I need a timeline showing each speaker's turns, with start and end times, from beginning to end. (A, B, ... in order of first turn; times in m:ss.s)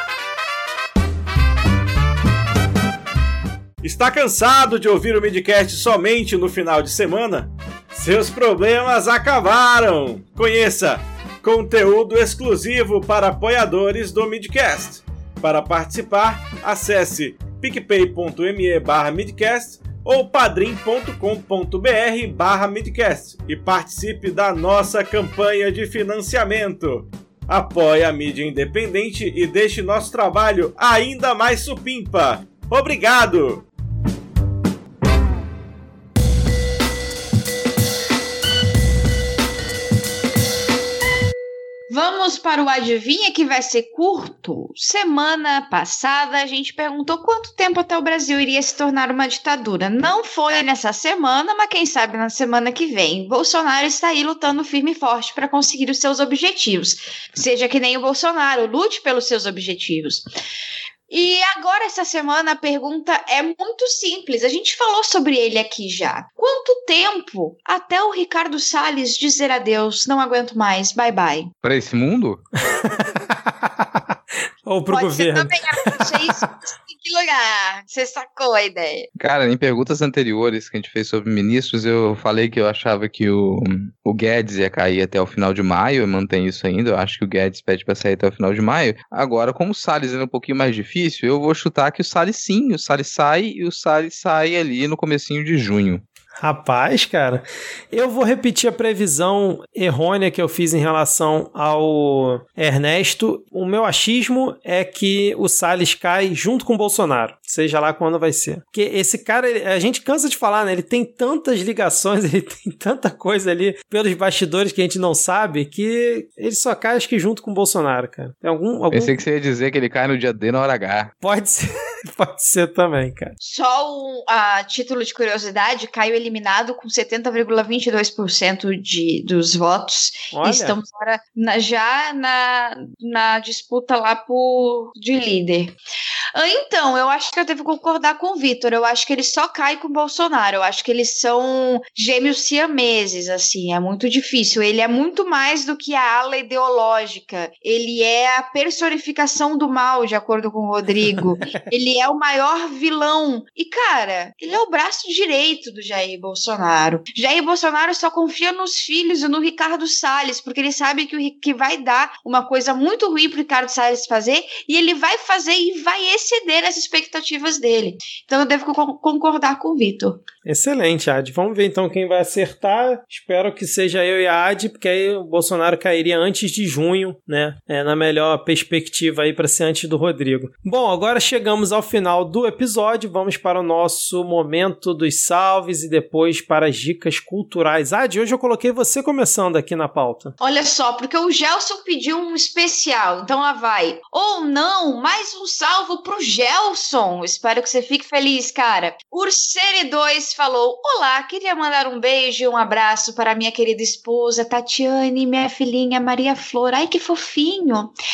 0:03.8-0:33.6 A
0:41.9-1:00.3 B
1:01.1-1:11.5 B
1:11.6-1:12.4 C
1:12.8-1:14.1 D
1:14.6-1:16.2 D
1:14.9-1:19.1 B
1:19.2-1:36.0 C
1:36.4-1:59.2 D
1:58.9-2:01.1 C
2:01.2-2:03.3 D
2:03.4-2:15.7 B
2:10.3-2:10.8 D
2:16.3-2:50.2 B
2:50.5-3:10.4 D
3:10.4-3:27.9 B